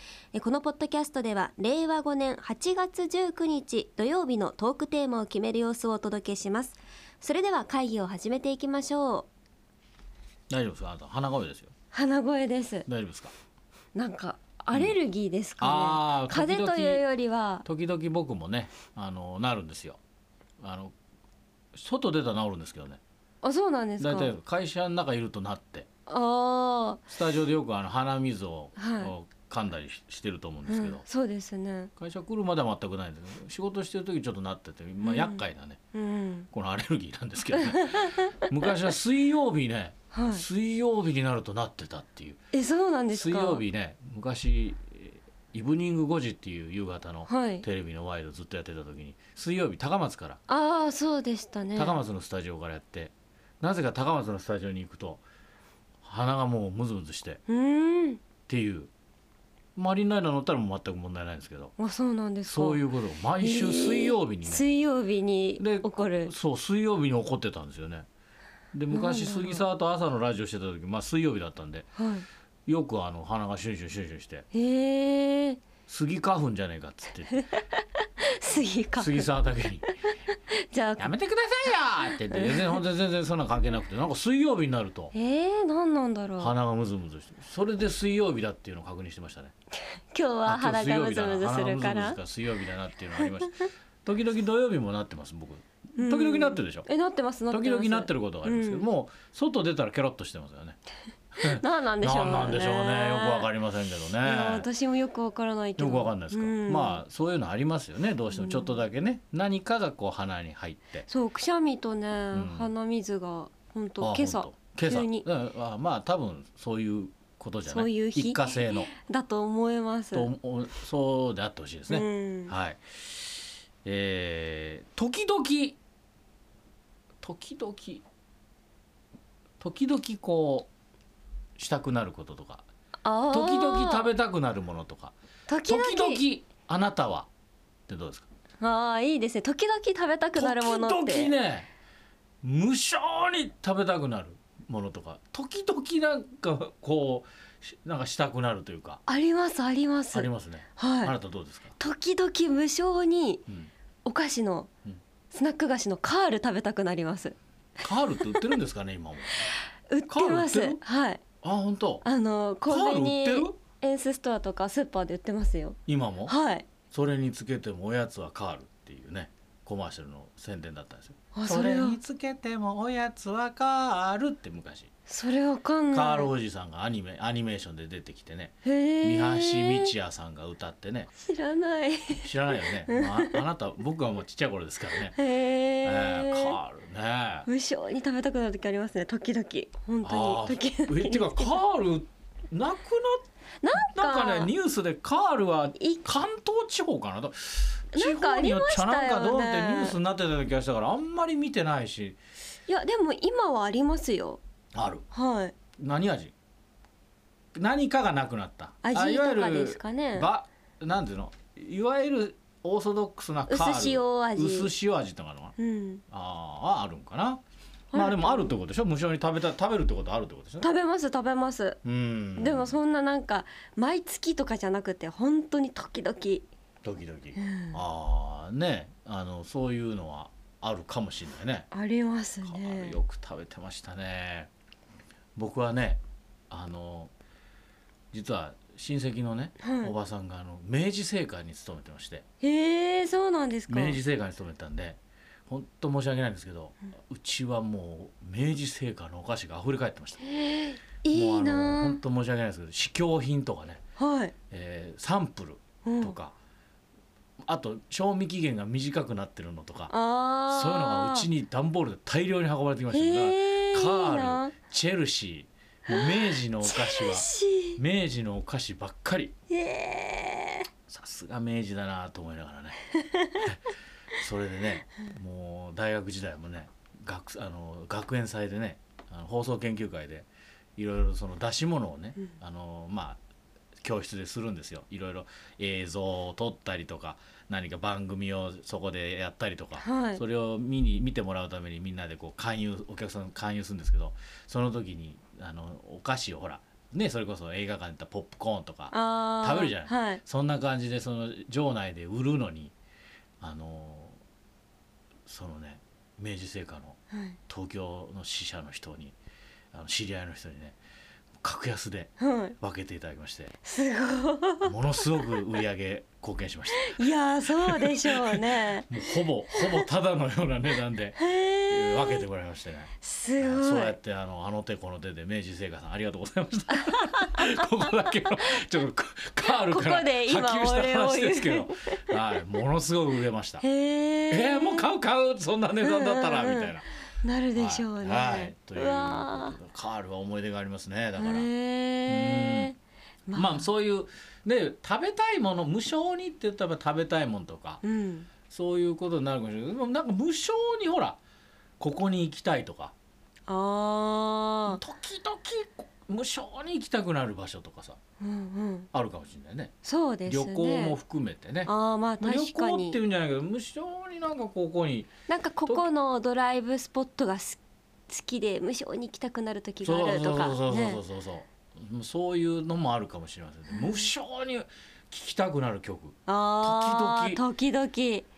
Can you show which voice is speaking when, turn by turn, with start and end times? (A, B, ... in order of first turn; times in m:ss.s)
0:00.3-0:09.3 A
0:10.5-0:11.7 B
0:11.9-0:12.9 A
0:12.9-0:13.3 B
0:13.9-0:17.6 A
0:15.6-0:17.0 B
0:17.6-0:20.0 B
0:20.6-0:20.9 B
0:21.7-0:23.0 B
0:23.4-0:24.3 A
0:24.0-0:25.9 B
0:26.1-0:27.0 A
0:27.1-0:31.0 B
0:28.8-0:29.1 A
0:30.7-0:31.9 A
0:32.0-0:35.8 B
0:35.0-0:35.4 A
0:35.9-0:36.5 A
0:36.5-0:42.4 B
0:37.7-0:38.4 A
0:40.1-0:40.4 A
0:42.5-0:43.6 A
0:43.1-0:50.4 B
0:47.3-0:47.6 A
0:50.5-0:52.0 A
0:51.7-0:55.2 B
0:56.0-0:57.4 B
0:57.5-0:58.2 A
0:58.5-0:58.9 B
0:59.8-1:01.7 B
1:01.8-1:02.8 A
1:02.5-1:04.6 B
1:03.4-1:06.3 A
1:05.6-1:08.1 B
1:08.7-1:11.9 B
1:08.9-1:09.6 A
1:12.0-1:12.2 A
1:12.6-1:14.4 B
1:14.5-1:15.6 A
1:15.9-1:17.3 B
1:17.3-1:19.3 A
1:19.0-1:19.9 B
1:20.0-1:21.1 A
1:21.0-1:25.1 B
1:22.3-1:22.8 A
1:25.1-1:26.5 A
1:26.4-1:29.5 B
1:29.9-1:32.2 A
1:30.4-1:36.9 B
1:36.0-1:38.8 A
1:37.5-1:40.8 B
1:41.3-1:44.7 B
1:41.4-1:43.5 A
1:44.2-1:47.0 A
1:45.8-1:51.1 B
1:48.3-1:48.8 A
1:51.1-1:55.2 A
1:52.3-1:52.7 B
1:54.0-1:58.9 B
1:57.7-2:00.3 A
2:00.1-2:05.8 B
2:01.9-2:02.5 A
2:07.2-2:08.0 B
2:09.6-2:10.7 B
2:11.6-2:12.6 B
2:13.0-2:14.1 A
2:13.3-2:17.3 B
2:15.5-2:16.2 A
2:17.9-2:18.3 B
2:18.6-2:21.3 A
2:20.4-2:21.7 B
2:22.4-2:29.0 B
2:29.0-2:31.1 A
2:30.1-2:31.7 B
2:31.8-2:33.4 A
2:34.0-2:34.7 A
2:35.3-2:37.3 A
2:37.8-2:39.5 B
2:39.9-2:41.2 A
2:40.1-2:40.8 B
2:41.4-2:42.0 B
2:42.0-2:46.7 A
2:42.7-2:43.5 B
2:45.9-2:46.3 B
2:46.9-2:54.9 B
2:51.3-2:52.0 A
2:55.1-2:56.3 A
2:55.9-3:01.1 B
2:58.6-2:59.9 A
3:01.2-3:03.4 A
3:02.2-3:05.2 B
3:05.1-3:06.6 A
3:05.8-3:07.5 B
3:07.4-3:11.6 A
3:10.0-3:22.2 B
3:13.6-3:14.5 A
3:15.8-3:16.0 A
3:17.9-3:20.0 A
3:22.7-3:24.4 A
3:24.7-3:25.0 B
3:25.1-3:25.5 A
3:25.8-3:26.3 B
3:27.5-3:35.6 B
3:28.8-3:30.3 A
3:33.5-3:34.7 A
3:35.6-3:36.0 A
3:36.1-3:37.4 B
3:37.9-3:38.5 A
3:37.9-3:40.7 B
3:40.6-3:41.8 A
3:41.8-3:42.8 B
3:42.4-3:46.5 A
3:46.8-3:51.7 B
3:47.4-3:47.8 A
3:51.7-3:53.0 A
3:52.4-3:54.5 B
3:55.4-3:57.1 B
3:58.1-4:02.2 B
3:59.6-3:59.9 A
4:02.4-4:04.0 A
4:03.7-4:10.3 B
4:10.3-4:12.0 A
4:11.1-4:13.8 B
4:14.0-4:14.3 A
4:14.5-4:16.3 B
4:15.8-4:16.1 A
4:17.4-4:19.9 B
4:19.9-4:21.3 A
4:20.5-4:29.3 B
4:22.9-4:24.5 A
4:25.9-4:27.8 A
4:29.5-4:30.7 A
4:30.9-4:32.8 B
4:32.9-4:33.4 A
4:34.2-4:43.2 B
4:43.8-5:02.7 B
4:49.8-4:50.2 A
4:58.9-5:00.2 A
5:03.4-5:04.2 B
5:05.3-5:07.0 B
5:07.1-5:07.4 A
5:07.5-5:09.2 B
5:09.7-5:10.8 B
5:11.4-5:13.5 B
5:12.2-5:12.5 A
5:13.6-5:14.7 A
5:14.6-5:33.6 B
5:16.8-5:18.9 A
5:19.5-5:19.8 A
5:21.2-5:22.2 A
5:23.0-5:23.9 A
5:26.8-5:27.6 A
5:29.5-5:32.0 A
5:33.6-5:34.9 A
5:34.3-5:36.8 B
5:35.8-5:36.7 A
5:37.2-5:39.6 A
5:37.5-5:41.5 B
5:41.2-5:43.6 A
5:42.1-5:42.7 B
5:43.3-5:47.8 B
5:47.8-5:48.3 A
5:48.5-5:51.2 B
5:51.8-5:52.9 B
5:53.5-5:54.8 A
5:54.7-5:58.0 B
5:58.2-5:58.9 A
5:58.9-5:59.7 B
5:59.8-6:01.0 A
6:00.3-6:05.1 B
6:01.6-6:03.0 A
6:05.3-6:11.0 A
6:09.8-6:17.4 B
6:13.7-6:14.1 A
6:16.3-6:18.3 A